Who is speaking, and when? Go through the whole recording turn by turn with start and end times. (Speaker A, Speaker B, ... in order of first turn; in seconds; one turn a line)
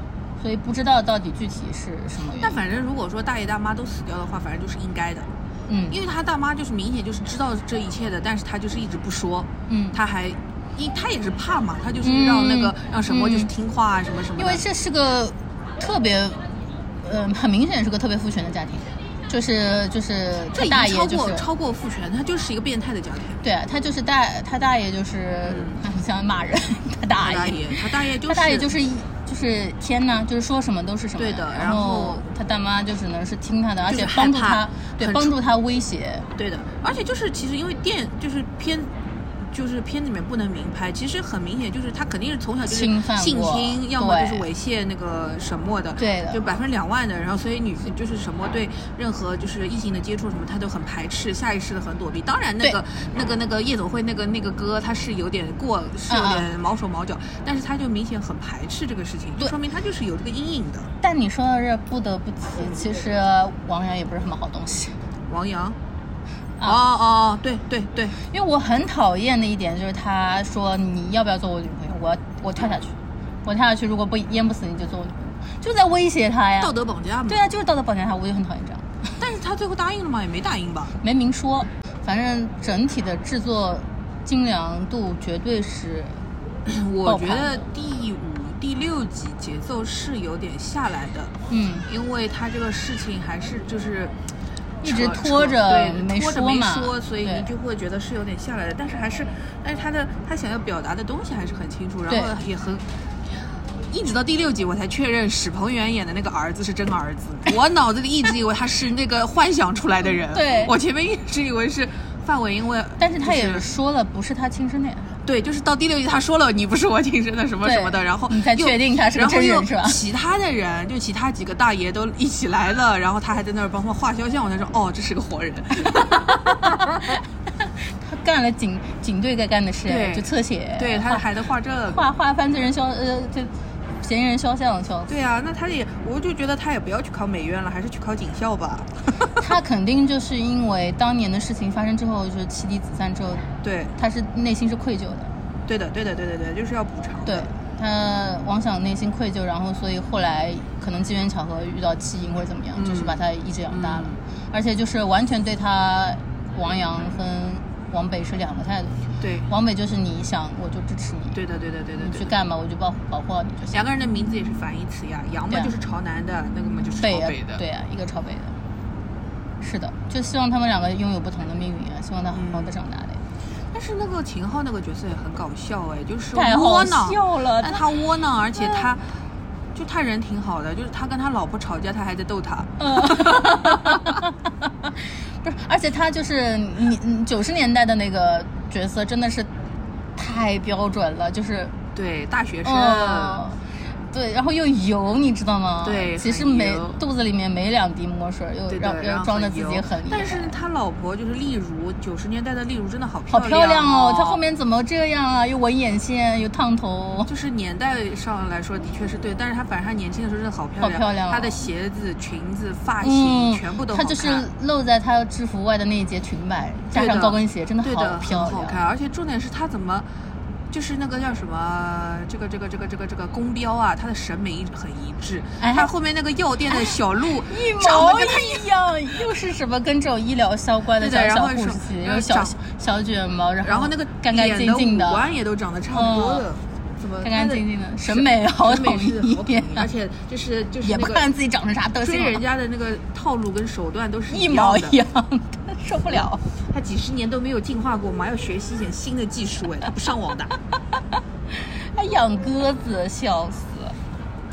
Speaker A: 0.4-2.6
Speaker B: 2.4-5.3
Speaker A: 5.7-6.0
Speaker B: 5.9-14.6
Speaker A: 9.7-10.0
Speaker A: 12.0-13.5
Speaker A: 14.4-16.4
Speaker A: 17.0-21.5
Speaker B: 20.5-23.4
Speaker A: 23.4-36.3
Speaker B: 25.4-25.8
Speaker B: 27.2-28.7
Speaker B: 31.2-32.2
Speaker B: 33.8-35.3
Speaker B: 36.4-60.9
Speaker A: 42.6-44.5
Speaker A: 46.0-46.4
Speaker A: 56.1-56.5
Speaker A: 61.0-64.9
Speaker B: 65.3-65.8
Speaker B: 66.6-68.2
Speaker A: 68.2-76.7
Speaker B: 76.6-77.4
Speaker A: 77.3-79.1
Speaker B: 79.2-81.0
Speaker A: 81.0-86.2
Speaker B: 86.7-91.3
Speaker A: 87.0-87.6
Speaker A: 91.5-91.9
Speaker B: 91.8-94.1
Speaker B: 94.8-102.8
Speaker A: 94.8-97.5
Speaker B: 103.9-113.7
Speaker A: 110.3-110.7
Speaker A: 113.0-115.1
Speaker B: 115.2-127.1
Speaker A: 117.6-120.0
Speaker A: 127.6-131.2
Speaker B: 129.8-132.0
Speaker A: 131.9-135.1
Speaker B: 135.1-139.3
Speaker A: 139.4-145.3
Speaker B: 143.6-143.9
Speaker B: 145.7-147.5
Speaker A: 147.2-161.4
Speaker B: 152.8-154.2
Speaker B: 159.2-159.5
Speaker B: 161.3-162.3
Speaker A: 162.0-163.8
Speaker B: 163.7-167.6
Speaker A: 167.0-168.6
Speaker A: 169.6-173.2
Speaker B: 172.3-172.7
Speaker B: 173.7-179.0
Speaker A: 176.3-177.8
Speaker A: 178.6-178.9
Speaker B: 179.7-184.2
Speaker A: 182.8-184.9
Speaker A: 185.4-189.5
Speaker A: 190.2-191.7
Speaker B: 191.9-193.4
Speaker A: 192.6-193.6
Speaker A: 194.1-200.6
Speaker B: 195.8-197.0
Speaker B: 198.7-204.4
Speaker A: 203.3-207.3
Speaker B: 207.3-214.5
Speaker A: 210.8-211.6
Speaker A: 213.0-218.8
Speaker B: 216.9-220.1
Speaker B: 220.7-228.7
Speaker A: 225.6-225.9
Speaker A: 226.7-235.2
Speaker B: 231.0-232.6
Speaker B: 233.6-241.3
Speaker A: 235.9-236.4
Speaker A: 237.2-239.9
Speaker A: 240.8-242.4
Speaker B: 242.0-245.0
Speaker A: 244.3-246.4
Speaker B: 246.1-250.5
Speaker A: 251.9-253.9